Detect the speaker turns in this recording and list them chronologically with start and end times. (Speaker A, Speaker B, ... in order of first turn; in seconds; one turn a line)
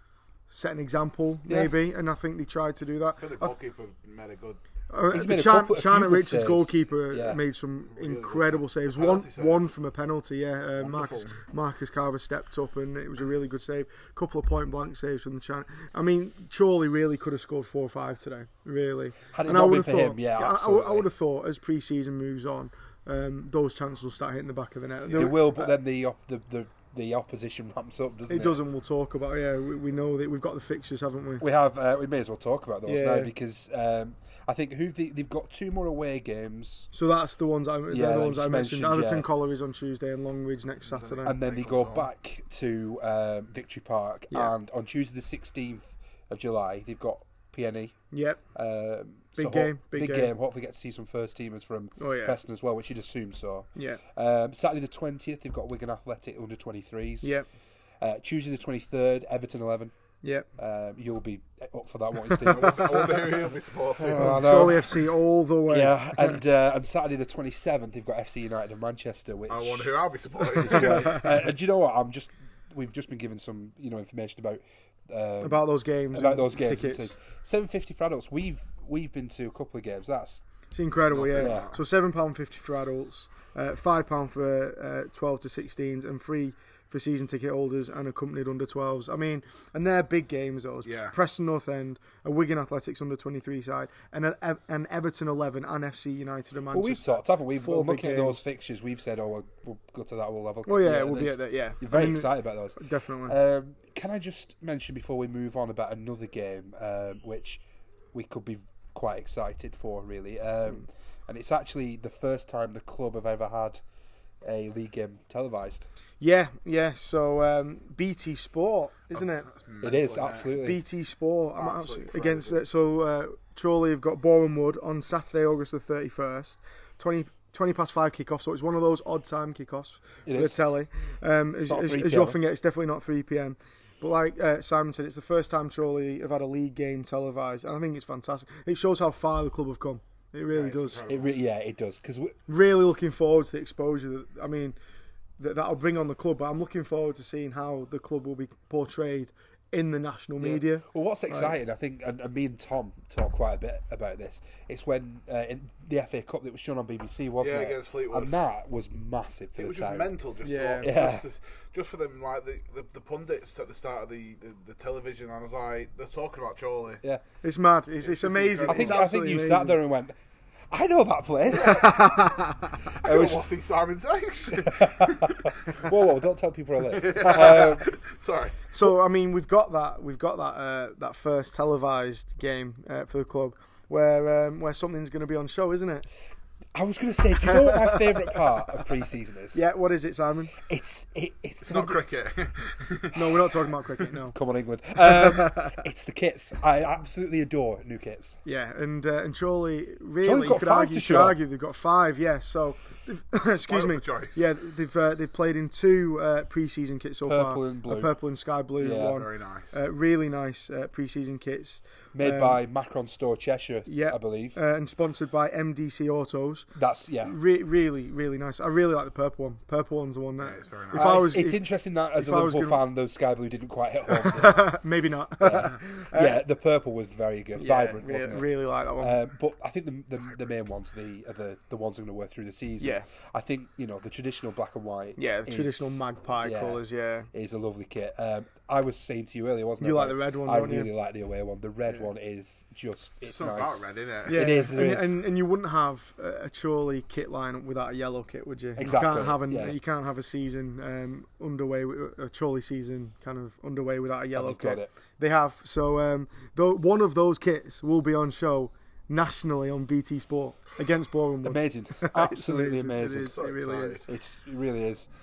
Speaker A: 0.5-3.5
Speaker B: 1.5-1.8
Speaker C: 3.2-4.6
Speaker A: 4.9-25.7
Speaker B: 5.1-7.4
Speaker C: 7.8-9.7
Speaker C: 10.8-11.4
Speaker B: 19.3-21.1
Speaker B: 25.1-28.6
Speaker A: 28.3-31.4
Speaker B: 31.4-36.9
Speaker A: 32.8-33.3
Speaker A: 36.9-41.3
Speaker B: 37.9-39.3
Speaker C: 40.8-42.1
Speaker B: 41.2-48.0
Speaker A: 48.1-48.4
Speaker B: 48.5-57.3
Speaker A: 49.4-50.3
Speaker A: 52.0-52.4
Speaker A: 53.7-54.0
Speaker A: 57.2-57.5
Speaker B: 58.0-59.9
Speaker A: 60.2-60.5
Speaker B: 60.5-63.0
Speaker A: 62.2-62.6
Speaker C: 62.5-64.8
Speaker B: 64.0-70.0
Speaker A: 64.1-66.4
Speaker C: 69.5-71.2
Speaker B: 70.5-80.4
Speaker A: 75.4-77.1
Speaker A: 80.7-98.4
Speaker C: 81.1-81.8
Speaker B: 81.3-81.7
Speaker C: 90.8-91.2
Speaker B: 96.7-107.6
Speaker A: 100.7-103.3
Speaker B: 108.1-113.8
Speaker B: 114.4-115.9
Speaker A: 116.2-119.5
Speaker C: 119.1-120.5
Speaker B: 119.8-120.8
Speaker A: 120.5-141.0
Speaker C: 121.5-122.6
Speaker B: 130.2-130.7
Speaker B: 131.6-132.4
Speaker C: 140.5-141.3
Speaker B: 141.1-142.3
Speaker A: 142.5-144.8
Speaker A: 145.4-151.6
Speaker B: 150.4-160.1
Speaker C: 157.4-158.3
Speaker C: 159.6-167.0
Speaker A: 160.4-160.9
Speaker B: 160.8-161.2
Speaker A: 167.4-169.8
Speaker C: 168.0-169.0
Speaker B: 168.7-170.2
Speaker B: 170.7-172.2
Speaker C: 171.6-171.8
Speaker A: 171.8-172.2
Speaker C: 172.9-175.8
Speaker B: 173.0-173.5
Speaker B: 174.6-177.9
Speaker C: 176.9-178.6
Speaker A: 178.7-186.1
Speaker B: 186.7-189.6
Speaker A: 187.5-188.1
Speaker A: 189.5-190.6
Speaker B: 190.6-192.1
Speaker C: 191.6-193.4
Speaker A: 193.1-194.3
Speaker B: 194.3-198.4
Speaker A: 198.4-212.6
Speaker B: 200.2-201.4
Speaker C: 203.5-204.5
Speaker B: 207.2-208.1
Speaker B: 208.8-209.2
Speaker C: 209.0-209.8
Speaker B: 212.1-214.6
Speaker A: 213.8-216.7
Speaker B: 216.7-217.3
Speaker A: 217.2-222.8
Speaker C: 220.4-221.3
Speaker B: 220.9-224.7
Speaker A: 224.1-226.4
Speaker B: 225.4-245.2
Speaker A: 227.5-229.1
Speaker A: 232.8-233.1
Speaker A: 235.2-237.3
Speaker A: 239.8-240.9
Speaker C: 243.2-244.6
Speaker A: 244.2-264.0
Speaker B: 248.8-249.8
Speaker B: 254.3-254.9
Speaker B: 261.4-263.4
Speaker C: 263.3-264.1
Speaker B: 264.1-265.1